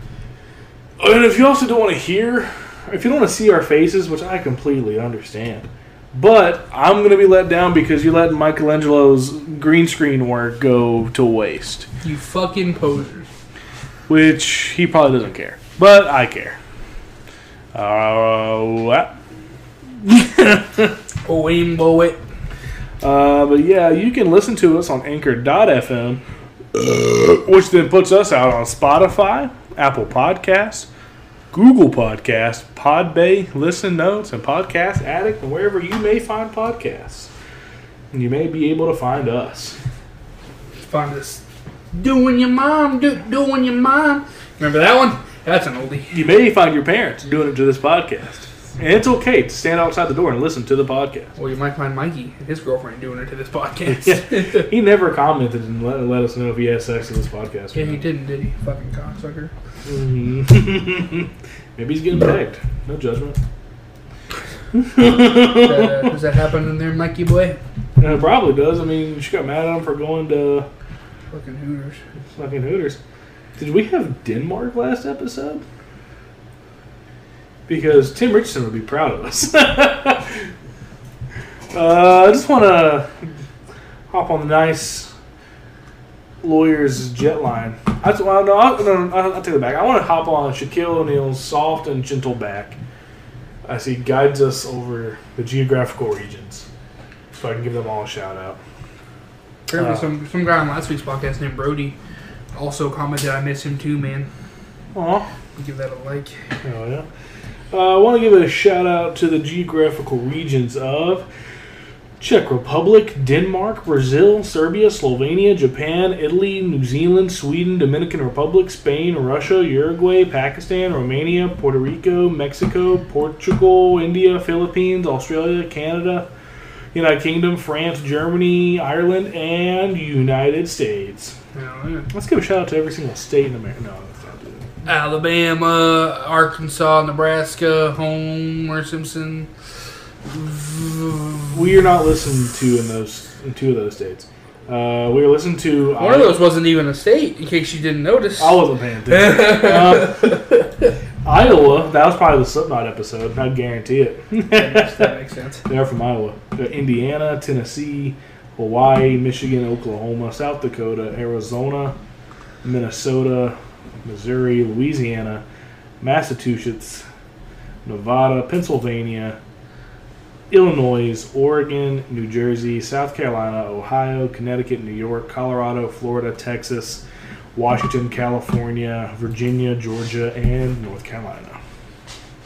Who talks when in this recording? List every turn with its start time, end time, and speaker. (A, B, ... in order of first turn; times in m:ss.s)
0:01.0-0:11.9 A
0:12.0-0:13.3 B
0:14.1-0:16.6 A
0:17.7-0:19.1 A
0:20.0-0:20.9 A
0:21.2-0:22.2 B
0:23.0-0:26.2 A
0:26.7-0:30.9 A
0:31.5-0:37.3 A
0:38.1-0:39.8 A
0:40.8-0:41.4 B
0:41.9-0:46.2 B
0:46.1-0:51.3 A
0:51.4-0:54.7 B
0:53.8-0:58.0 A
0:57.7-0:59.5 B
0:59.8-1:03.4 A
1:04.7-1:06.1 A
1:05.4-1:07.6 B
1:08.0-1:10.7 A
1:11.3-1:12.0 B
1:12.4-1:13.0 A
1:13.6-1:15.6 A
1:17.7-1:20.5 A
1:21.7-1:23.3 A
1:24.1-1:25.1 A
1:26.4-1:32.8 A
1:33.6-1:36.6 A
1:37.3-1:38.6 A
1:39.7-1:42.0 B
1:39.8-1:40.1 A
1:42.5-1:44.3 B
1:44.9-1:45.3 A
1:45.6-1:46.4 B
1:46.6-1:47.1 A
1:47.7-1:51.3 A
1:52.2-2:06.3 A
2:06.9-2:11.3 A
2:11.5-2:12.1 B
2:12.1-2:14.7 A
2:14.8-2:19.5 B
2:20.3-2:21.5 B
2:21.5-2:26.4 A
2:26.0-2:30.6 B
2:28.4-2:30.4 A
2:31.2-2:35.1 A
2:34.5-2:35.6 B
2:35.6-2:42.0 A
2:42.6-2:45.4 A
2:46.0-2:47.0 A
2:47.8-2:49.4 A
2:50.5-2:57.0 A
2:57.5-3:01.6 A